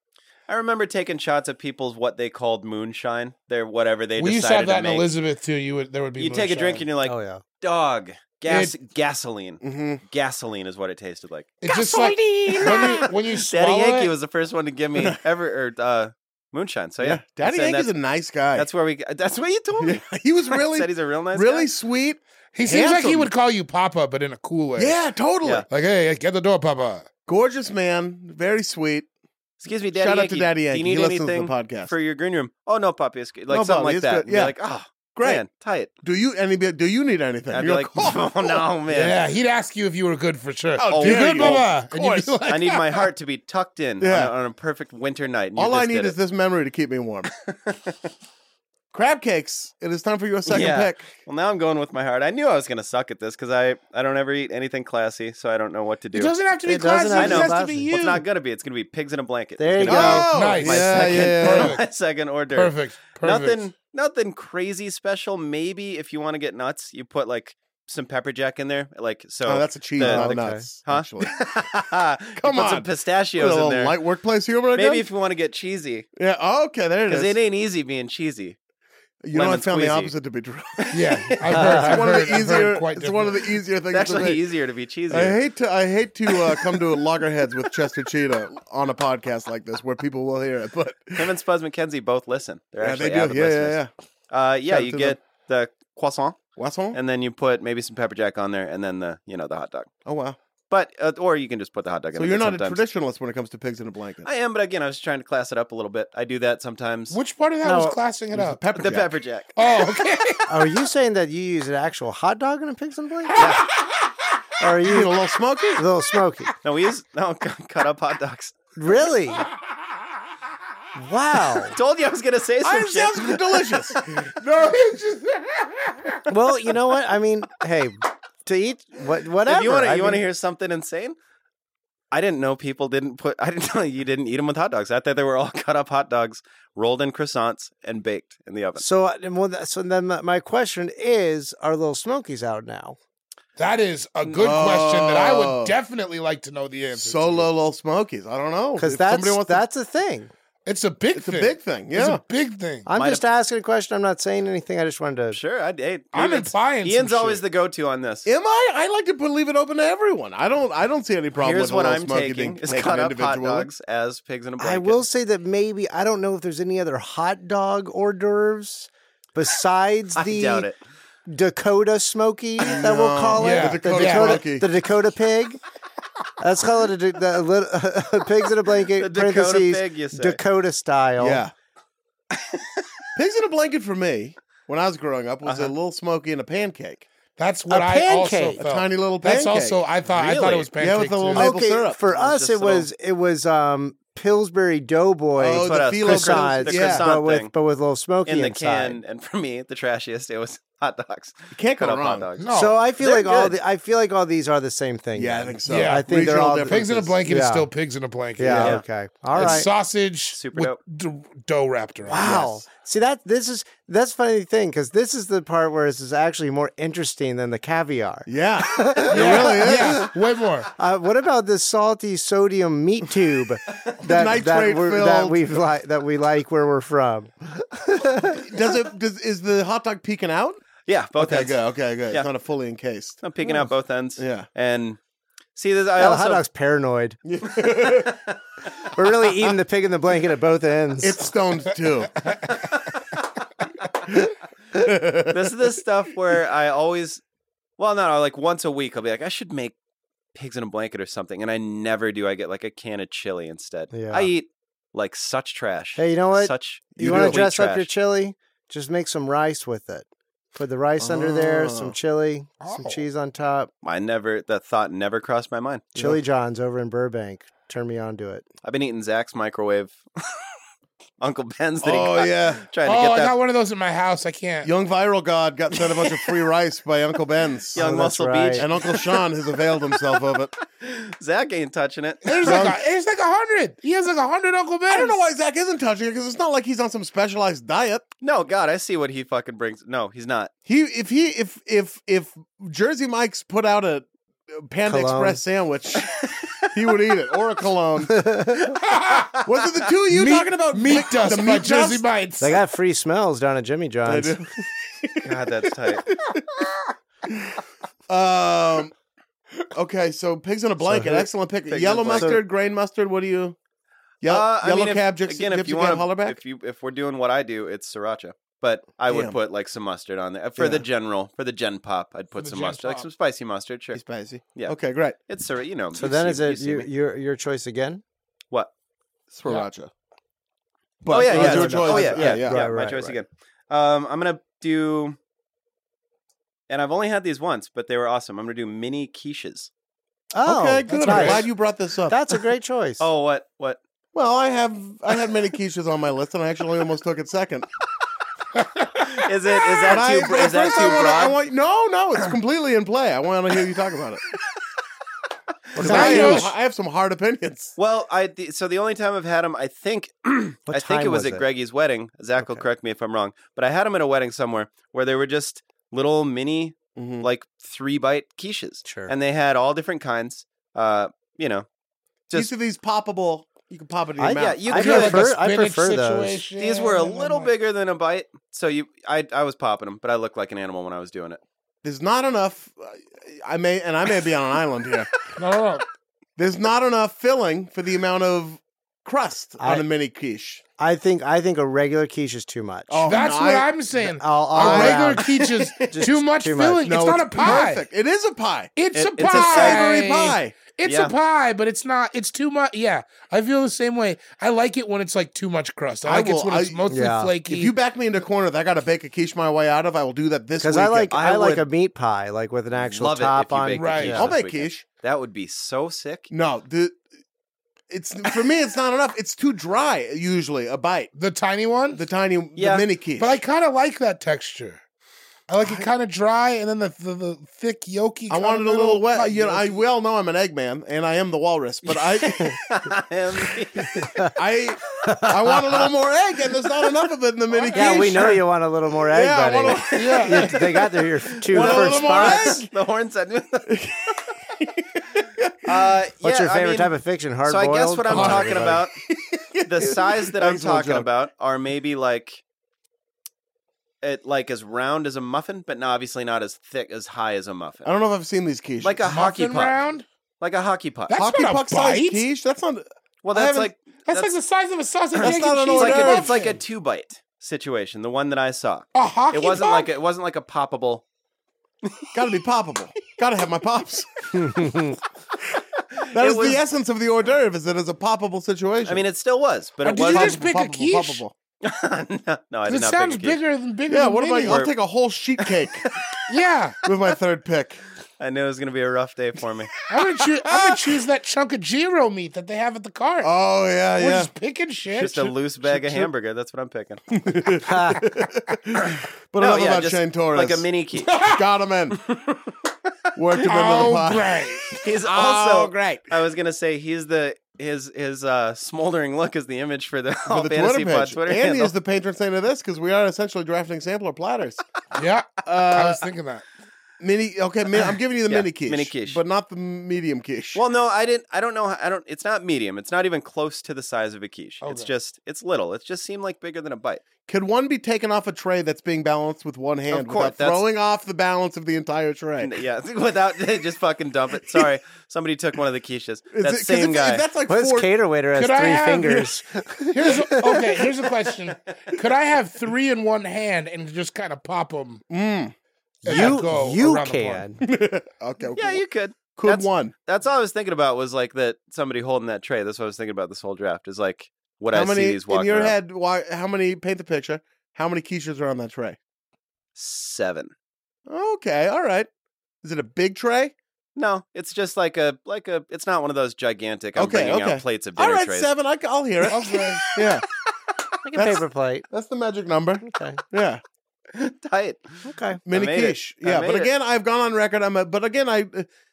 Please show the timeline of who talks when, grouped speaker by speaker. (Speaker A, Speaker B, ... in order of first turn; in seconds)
Speaker A: 0.5-5.1, 6.2-17.9, 18.6-21.7, 29.6-35.9, 37.5-39.2, 40.9-41.7, 42.5-46.2, 47.3-48.0, 50.5-56.4, 57.1-74.0, 74.8-76.1, 77.1-78.6, 79.3-80.1, 80.8-81.9, 83.9-85.4, 91.2-96.4, 96.9-99.9, 100.7-102.8, 104.2-107.2, 108.8-109.6, 113.3-113.6, 116.6-118.6, 121.7-124.2, 129.4-131.2, 132.1-138.8, 144.2-144.6, 152.9-153.2, 155.3-158.3, 161.3-165.0, 170.2-170.8, 178.9-180.4, 182.3-182.9, 185.4-185.8, 190.1-190.7, 192.1-192.9, 195.6-197.5, 198.3-203.6, 209.4-209.6, 210.3-210.8, 230.9-232.3, 233.2-235.0, 235.6-236.4, 237.6-238.4, 242.4-243.2, 245.3-247.2, 247.8-249.8, 250.3-257.9, 263.8-265.9, 268.6-270.0, 271.2-273.4, 275.7-276.1, 277.7-279.2, 280.8-282.7, 288.2-290.5, 296.3-296.6, 305.2-306.1, 311.7-312.4, 314.3-324.0, 324.6-326.9, 331.1-335.2, 336.7-339.7, 343.0-343.8, 349.1-351.4, 357.8-371.7, 374.3-375.3, 376.6-381.4, 395.3-396.0, 398.9-399.9, 400.8-401.1, 411.1-411.7, 412.7-416.3, 422.6-422.9, 431.9-434.1, 439.7-440.2, 441.5-444.2, 445.6-449.0, 449.6-452.4, 454.0-457.9, 458.8-459.8, 460.4-461.2, 463.2-464.3, 465.2-471.0, 471.8-472.3, 475.9-476.6, 478.9-480.4, 481.6-483.4, 484.5-484.7, 485.4-486.2, 488.2-489.7, 494.9-497.0, 499.4-501.2, 502.0-502.5, 504.8-511.8, 517.8-519.2, 520.5-527.0, 529.9-530.7, 532.4-537.2, 548.6-555.8, 559.8-560.5, 564.0-568.5, 569.4-570.0, 574.1-575.0, 575.5-576.7
Speaker B: 4.2-6.8, 8.5-8.8, 11.6-14.1, 22.6-25.0, 25.7-27.1, 38.9-43.1, 56.1-58.3, 60.3-61.8, 62.5-63.6, 80.9-83.5, 107.1-108.6, 109.6-110.5, 113.3-113.8, 124.4-126.2, 143.6-147.5, 150.7-152.9, 156.1-157.4, 173.4-174.4, 187.4-191.5, 202.4-202.8, 205.7-206.1, 206.6-208.8, 209.3-212.4, 219.1-220.7, 262.6-263.1, 272.9-274.7, 282.2-285.2, 298.9-299.3, 300.1-302.6, 322.4-323.1, 340.9-341.4, 348.6-349.3, 355.8-356.5, 374.7-377.5, 385.4-385.9, 393.1-397.9, 398.8-407.7, 413.8-414.2, 421.2-422.0, 423.2-424.8, 425.5-429.8, 437.5-438.3, 439.9-440.9, 441.5-442.4, 459.0-460.1, 461.1-462.2, 463.4-466.6, 468.9-469.9, 479.8-481.2, 482.7-484.6, 486.3-486.8, 489.9-493.3, 494.0-495.4, 501.1-501.4, 503.4-504.8, 515.0-516.5, 524.6-524.9, 538.4-539.3, 539.9-545.0, 546.0-547.5, 569.3-570.0
Speaker C: 7.0-7.4, 56.7-57.9, 59.6-60.3, 70.0-70.7, 107.6-108.0, 110.5-113.5, 114.6-115.1, 115.8-116.5, 118.8-119.5, 121.0-121.8, 126.3-130.2, 138.8-143.0, 148.8-150.3, 152.9-155.4, 164.6-170.7, 171.3-175.6, 176.4-181.4, 187.7-188.6, 191.4-199.0, 202.5-207.7, 208.4-209.7, 212.1-220.1, 220.8-228.7, 236.0-237.2, 238.8-241.3, 253.9-254.3, 255.9-263.7, 266.0-268.4, 277.8-278.6, 294.9-295.4, 298.1-298.6, 302.4-304.4, 310.8-311.3, 312.2-312.4, 325.9-328.0, 331.2-333.2, 340.3-341.5, 342.1-343.1, 355.8-356.5, 360.7-361.4, 362.4-362.6, 368.8-369.1, 374.2-376.4, 389.6-389.9, 390.8-393.2, 394.0-395.4, 395.9-396.9, 406.9-407.3, 410.6-414.3, 435.1-435.8, 437.7-442.6, 446.2-448.8, 474.4-475.0, 497.7-498.1, 537.5-540.8, 546.1-547.6, 571.0-571.9, 572.9-573.2, 575.0-575.4
Speaker D: 9.6-10.0, 17.0-18.7, 19.8-23.3, 24.8-25.7, 27.3-29.1, 29.9-31.9, 33.5-34.5, 35.1-35.4, 36.0-38.6, 40.8-42.4, 44.0-44.3, 45.6-47.3, 48.9-51.1, 59.8-61.8, 69.5-71.4, 72.3-75.1, 76.2-77.4, 79.2-84.5, 85.1-91.3, 92.8-93.9, 94.7-95.2, 96.6-97.0, 100.0-100.4, 102.2-104.3, 108.3-109.2, 114.8-115.8, 122.6-124.0, 144.4-145.8, 146.9-149.6, 151.2-152.2, 158.2-163.7, 172.6-174.7, 181.2-181.5, 183.2-187.1, 188.6-189.8, 190.8-192.0, 195.4-197.1, 201.5-202.3, 205.2-207.1, 208.4-208.8, 212.1-212.6, 218.3-220.1, 224.0-225.4, 228.4-230.6, 231.2-233.2, 234.2-234.5, 237.2-238.2, 241.0-242.2, 244.8-245.4, 256.9-257.4, 261.0-261.9, 271.8-272.7, 274.6-277.8, 278.6-280.5, 282.4-282.8, 284.9-288.1, 290.7-298.3, 299.4-302.1, 304.1-306.5, 307.3-307.6, 308.1-308.9, 309.7-313.6, 314.2-316.4, 319.1-319.4, 320.6-320.9, 323.9-325.2, 329.3-329.9, 331.0-332.7, 340.4-342.2, 344.1-347.7, 349.9-354.2, 355.8-357.8, 367.0-367.3, 372.3-374.7, 381.8-385.1, 386.4-390.6, 392.9-393.7, 394.6-395.1, 396.8-400.6, 406.1-406.9, 407.4-411.2, 414.1-414.8, 416.3-417.0, 417.9-421.1, 421.9-423.4, 428.3-432.6, 434.4-438.4, 439.1-440.5, 441.5-442.7, 443.7-445.7, 448.1-451.1, 457.8-459.0, 461.1-462.9, 465.2-466.3, 472.1-474.1, 476.1-479.1, 480.1-481.3, 483.9-485.9, 486.8-487.8, 490.5-490.8, 493.2-494.3, 495.6-496.1, 497.1-500.7, 501.2-502.0, 503.1-504.4, 505.0-506.1, 510.3-514.6, 515.4-516.1, 517.0-520.6, 527.3-532.6, 536.3-537.9, 545.1-545.5, 546.1-546.4, 547.6-549.9, 554.7-559.0, 561.1-562.1, 562.6-563.5, 567.0-570.2, 571.1-573.6, 575.5-578.7